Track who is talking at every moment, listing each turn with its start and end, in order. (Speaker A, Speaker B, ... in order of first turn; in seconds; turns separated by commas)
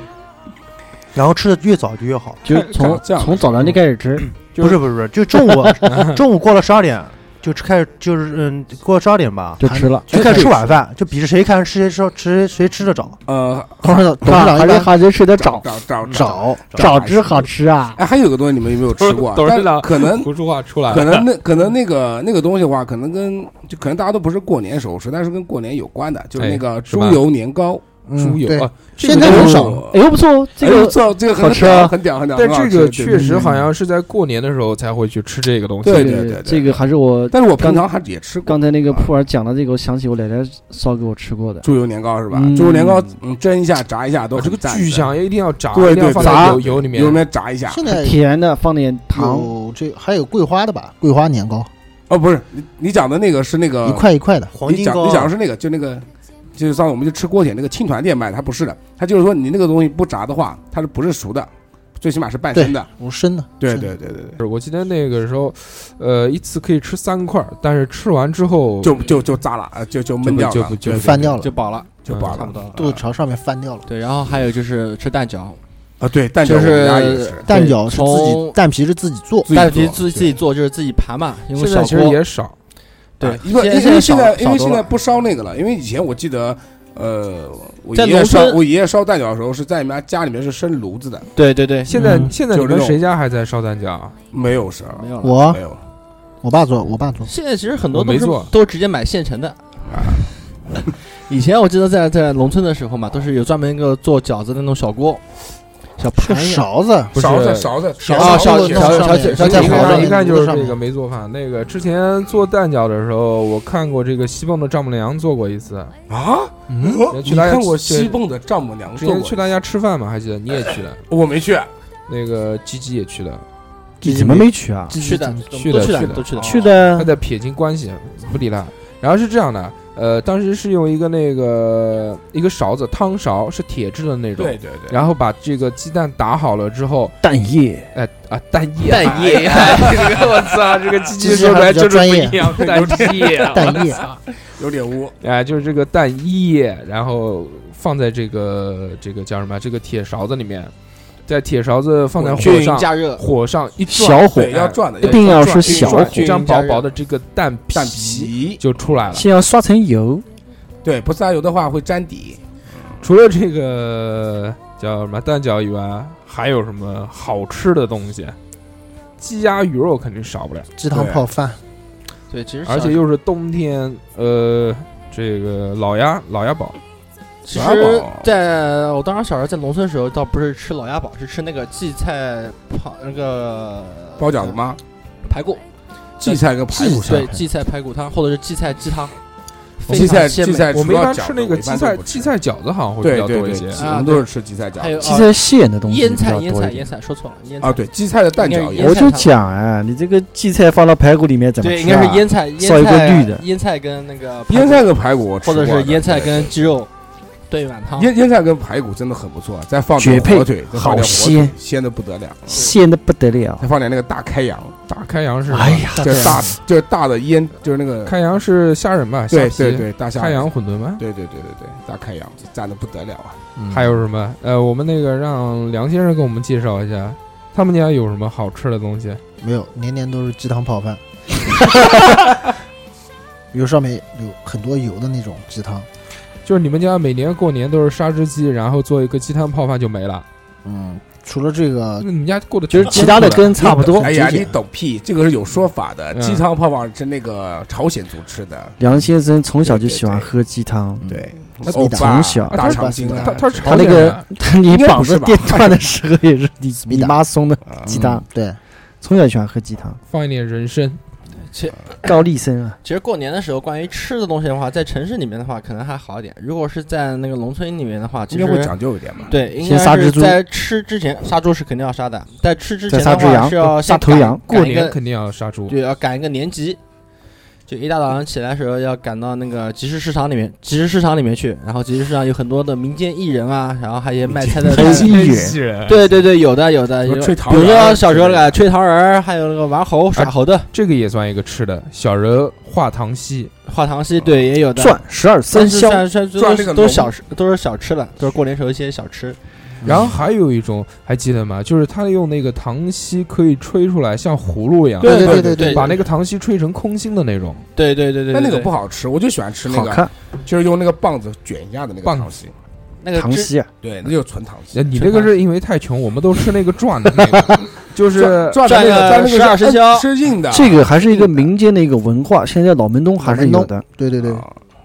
Speaker A: 1.1-2.4, Speaker B: 2.4-4.7, Speaker C: 2.6-3.8, Speaker A: 4.6-13.2, Speaker B: 5.3-5.7, Speaker D: 5.9-6.2, Speaker B: 9.6-10.5, Speaker E: 9.6-10.4, Speaker C: 10.2-10.7, Speaker C: 13.3-14.1, Speaker E: 13.8-14.9, Speaker B: 14.2-15.7, Speaker C: 15.4-17.4, Speaker E: 16.1-16.9, Speaker B: 16.8-18.0, Speaker C: 18.0-20.3, Speaker D: 18.9-21.3, Speaker C: 20.9-27.8, Speaker D: 26.4-27.2, Speaker E: 28.1-29.8, Speaker D: 28.1-29.8, Speaker B: 29.1-32.0, Speaker C: 29.1-30.0, Speaker C: 30.6-33.4, Speaker D: 32.4-36.2, Speaker E: 33.1-33.6, Speaker C: 35.8-39.1, Speaker B: 35.9-37.8, Speaker B: 38.5-41.7, Speaker C: 41.6-45.1, Speaker B: 42.3-43.2, Speaker D: 44.4-47.3, Speaker C: 45.7-47.9, Speaker B: 46.2-46.6, Speaker E: 47.7-48.2, Speaker B: 47.9-49.5, Speaker E: 49.1-51.7, Speaker C: 52.1-54.1, Speaker E: 53.8-54.5, Speaker A: 54.5-55.3, Speaker C: 54.6-62.9, Speaker E: 62.5-63.9, Speaker C: 63.6-64.4, Speaker D: 64.4-69.2, Speaker C: 68.8-71.3, Speaker D: 70.2-71.4, Speaker E: 70.8-71.5, Speaker F: 71.4-73.0, Speaker C: 72.0-72.6, Speaker D: 72.1-72.5, Speaker E: 72.7-73.8, Speaker F: 73.9-75.6, Speaker C: 76.0-77.5, Speaker F: 76.4-78.6, Speaker E: 77.5-79.5, Speaker C: 79.5-80.4, Speaker F: 79.5-82.2, Speaker D: 81.5-82.5, Speaker F: 83.2-84.9, Speaker C: 83.2-91.3, Speaker F: 87.9-88.6, Speaker F: 91.4-91.9, Speaker D: 91.9-94.2, Speaker E: 91.9-92.3, Speaker C: 92.0-93.0, Speaker C: 94.3-95.8, Speaker F: 95.0-95.4, Speaker E: 95.2-95.6, Speaker E: 96.4-97.3, Speaker F: 97.3-99.6, Speaker D: 97.9-98.5, Speaker C: 99.9-100.3, Speaker F: 101.3-105.2, Speaker F: 106.0-106.7, Speaker E: 106.1-107.1, Speaker D: 107.1-107.8, Speaker C: 107.1-110.0, Speaker E: 108.0-110.8, Speaker F: 108.2-110.1, Speaker D: 109.2-115.9, Speaker C: 116.1-119.4, Speaker E: 116.7-117.1, Speaker D: 117.1-118.2, Speaker D: 119.0-121.0, Speaker C: 121.1-121.7, Speaker D: 122.1-123.5, Speaker B: 124.0-125.0, Speaker F: 124.0-126.8, Speaker E: 125.0-125.5, Speaker D: 125.6-137.2, Speaker B: 126.4-127.1, Speaker C: 134.4-135.0, Speaker B: 137.2-137.9, Speaker D: 137.9-144.2, Speaker F: 138.8-140.2, Speaker C: 139.6-140.4, Speaker E: 141.2-142.8, Speaker C: 142.6-143.8, Speaker E: 143.5-144.0, Speaker C: 144.5-145.2, Speaker D: 145.2-150.7, Speaker D: 151.3-159.3, Speaker C: 152.2-152.8, Speaker F: 152.4-153.3, Speaker B: 153.9-156.3, Speaker C: 154.3-156.3, Speaker F: 155.1-156.9, Speaker C: 157.7-158.6, Speaker B: 159.1-160.3, Speaker C: 160.8-162.4, Speaker D: 163.0-168.4, Speaker D: 169.2-170.7, Speaker E: 170.8-171.6, Speaker C: 170.9-171.2, Speaker F: 172.3-173.0, Speaker D: 172.7-176.8, Speaker F: 177.4-184.5, Speaker C: 177.5-178.3, Speaker C: 184.2-184.8, Speaker F: 185.2-185.6, Speaker C: 186.2-187.3, Speaker F: 186.2-189.1, Speaker E: 186.7-187.4, Speaker F: 189.8-190.7, Speaker C: 189.9-192.3, Speaker D: 190.7-193.9, Speaker C: 193.0-195.1, Speaker F: 193.8-197.8, Speaker B: 195.0-196.9, Speaker C: 197.6-199.1, Speaker F: 198.4-199.3, Speaker B: 198.8-203.4, Speaker F: 201.6-204.9, Speaker C: 204.5-206.5, Speaker F: 205.4-206.9, Speaker F: 207.5-208.1, Speaker C: 208.0-212.7, Speaker B: 210.0-211.6, Speaker B: 212.5-213.7, Speaker C: 213.6-214.8, Speaker D: 214.9-216.0, Speaker B: 215.5-216.6, Speaker C: 216.0-218.2, Speaker D: 218.1-221.0, Speaker C: 219.3-220.5, Speaker C: 221.0-223.4, Speaker E: 223.6-224.0, Speaker D: 223.7-229.2, Speaker E: 229.4-232.3, Speaker E: 233.5-235.9, Speaker D: 236.4-240.2, Speaker E: 240.6-242.1, Speaker D: 242.0-243.6, Speaker B: 242.7-244.1, Speaker E: 243.0-244.6, Speaker C: 243.6-248.8, Speaker D: 246.1-246.4, Speaker B: 248.8-251.1, Speaker C: 249.6-250.3, Speaker E: 251.0-253.9, Speaker C: 251.1-254.0, Speaker B: 251.8-252.6, Speaker D: 252.6-254.2, Speaker B: 253.7-258.2, Speaker C: 254.6-255.8, Speaker E: 256.9-257.2, Speaker E: 257.8-258.6, Speaker B: 259.0-260.0, Speaker D: 260.1-261.0, Speaker F: 261.5-261.8, Speaker B: 262.0-262.8, Speaker F: 262.8-268.8, Speaker C: 268.3-269.4, Speaker F: 269.3-275.0, Speaker B: 269.6-270.4, Speaker B: 272.9-274.4, Speaker D: 274.5-275.8, Speaker F: 275.7-276.8, Speaker F: 277.7-285.1, Speaker D: 284.6-286.1, Speaker B: 284.7-285.6, Speaker F: 285.9-290.7, Speaker C: 287.1-288.5, Speaker D: 290.2-293.5, Speaker F: 293.7-299.4, Speaker B: 294.8-296.0, Speaker C: 296.4-297.1, Speaker C: 299.8-300.1, Speaker D: 299.8-307.7, Speaker F: 305.0-306.0, Speaker E: 305.0-306.0, Speaker C: 305.0-305.7, Speaker F: 307.8-308.7, Speaker C: 308.3-312.5, Speaker B: 309.7-310.1, Speaker D: 312.0-312.3, Speaker F: 313.0-313.5, Speaker B: 313.2-313.7, Speaker C: 313.8-315.0, Speaker D: 314.7-319.0, Speaker C: 318.1-321.4, Speaker F: 318.6-320.1, Speaker B: 320.5-323.8, Speaker E: 323.2-324.5, Speaker C: 324.2-324.5